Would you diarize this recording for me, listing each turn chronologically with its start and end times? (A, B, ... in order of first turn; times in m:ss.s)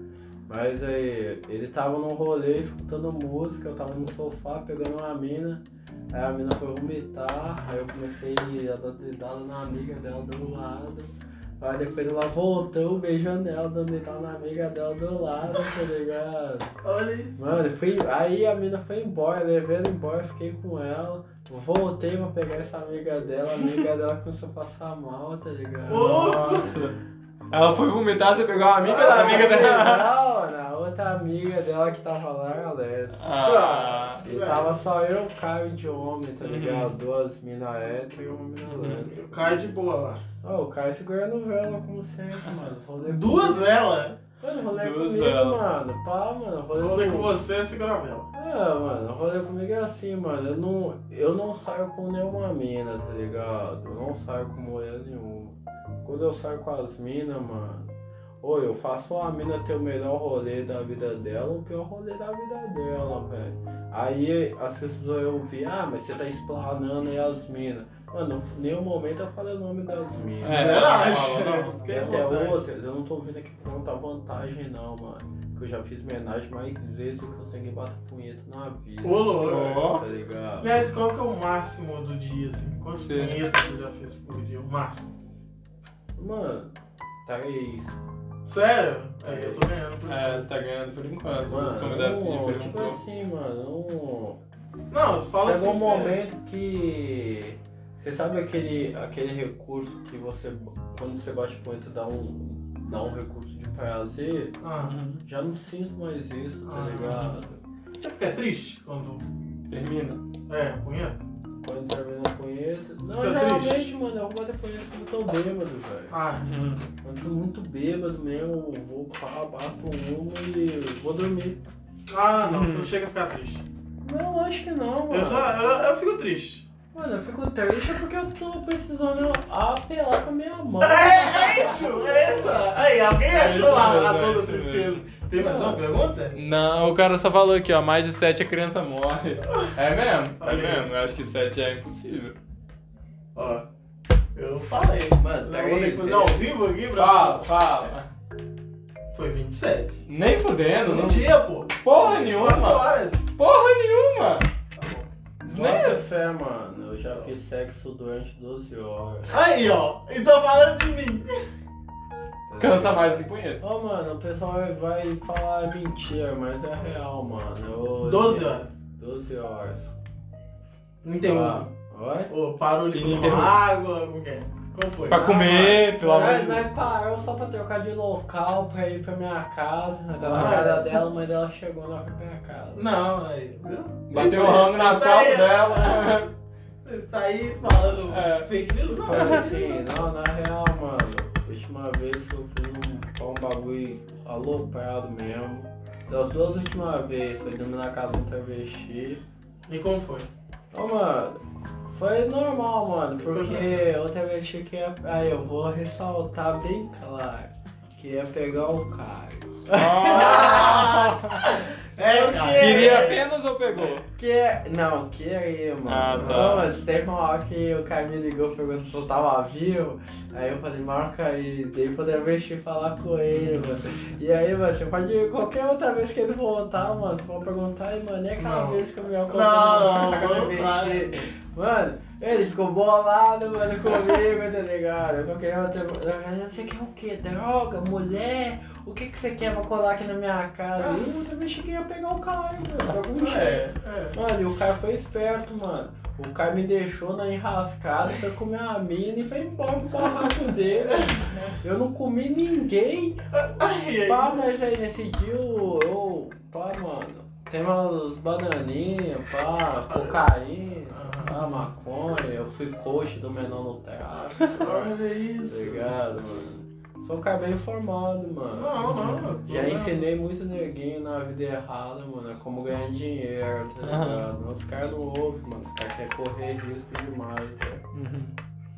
0:00.5-0:11.1 A
0:11.6-0:16.7 A
0:16.8-0:17.3 B
0:17.4-0:26.8 A
0:25.9-0:26.8 B
0:25.9-0:26.9 C
0:27.5-0:30.1 C
0:28.8-0:29.8 B
0:28.8-0:33.2 A
0:33.2-0:34.2 C
0:33.4-0:34.7 B
0:34.2-0:39.6 A
0:36.4-0:36.9 C
0:38.7-0:40.2 B
0:40.4-0:43.8 A
0:43.0-0:44.2 B
0:44.4-0:47.4 A
0:44.7-0:45.6 C
0:46.7-0:48.3 B
0:48.3-0:57.9 A
0:58.4-1:10.9 A
1:10.4-1:12.6 B
1:10.4-1:12.2 C
1:11.9-1:20.9 A
1:19.0-1:19.9 B
1:19.4-1:20.0 C
1:20.6-1:25.1 B
1:23.0-1:23.4 C
1:26.2-1:26.7 A
1:27.3-1:28.0 A
1:28.4-1:30.5 B
1:29.2-1:29.7 A
1:30.1-1:33.0 C
1:31.5-1:34.4 A
1:34.9-1:36.2 B
1:35.4-1:44.6 A
1:44.6-1:45.0 B
1:44.8-1:45.2 C
1:45.2-1:47.6 A
1:46.7-1:47.4 B
1:48.0-1:49.2 B
1:49.7-1:50.2 C
1:50.5-1:51.2 B
1:51.6-1:56.2 A
1:53.0-1:53.9 B
1:56.1-1:56.5 B
1:56.4-1:56.9 C
1:57.0-2:01.6 A
2:02.1-2:03.6 B
2:02.4-2:02.9 C
2:04.0-2:05.6 A
2:05.1-2:06.7 B
2:06.9-2:12.6 A
2:10.8-2:16.4 B
2:13.3-2:15.1 C
2:15.4-2:15.8 A
2:16.3-2:22.4 C
2:20.4-2:20.9 B
2:23.4-2:23.7 B
2:24.4-2:27.5 B
2:25.2-2:26.4 A
2:27.0-2:28.1 C
2:29.1-2:30.0 B
2:30.1-2:34.5 C
2:30.8-2:33.3 B
2:34.8-2:35.1 B
2:35.4-2:39.4 A
2:35.5-2:36.0 C
2:39.3-2:41.3 B
2:42.5-2:50.0 A
2:42.6-2:43.6 C
2:48.0-2:48.7 B
2:51.0-2:51.7 B
2:51.2-2:52.3 A
2:52.3-2:55.8 B
2:52.9-2:53.6 C
2:55.1-2:56.7 C
2:55.1-3:02.9 A
3:00.2-3:01.0 B
3:02.8-3:06.2 B
3:04.1-3:06.3 C
3:06.8-3:09.8 B
3:08.1-3:08.5 C
3:09.0-3:19.2 A
3:09.1-3:09.4 C
3:19.7-3:20.3 B
3:20.7-3:33.2 A
3:23.3-3:23.8 B
3:29.8-3:31.4 C
3:30.1-3:31.3 B
3:32.0-3:33.2 B
3:32.5-3:34.0 C
3:33.9-4:13.2 A
3:35.9-3:36.7 C
3:36.2-3:36.6 B
3:43.3-3:43.8 C
3:48.4-3:51.0 B
4:00.8-4:01.1 B
4:03.1-4:04.2 B
4:13.3-4:14.5 B
4:14.0-4:37.8 A
4:19.9-4:20.3 B
4:20.9-4:21.7 B
4:24.6-4:26.0 B
4:28.5-4:30.0 B
4:33.8-4:34.3 C
4:37.9-4:38.3 C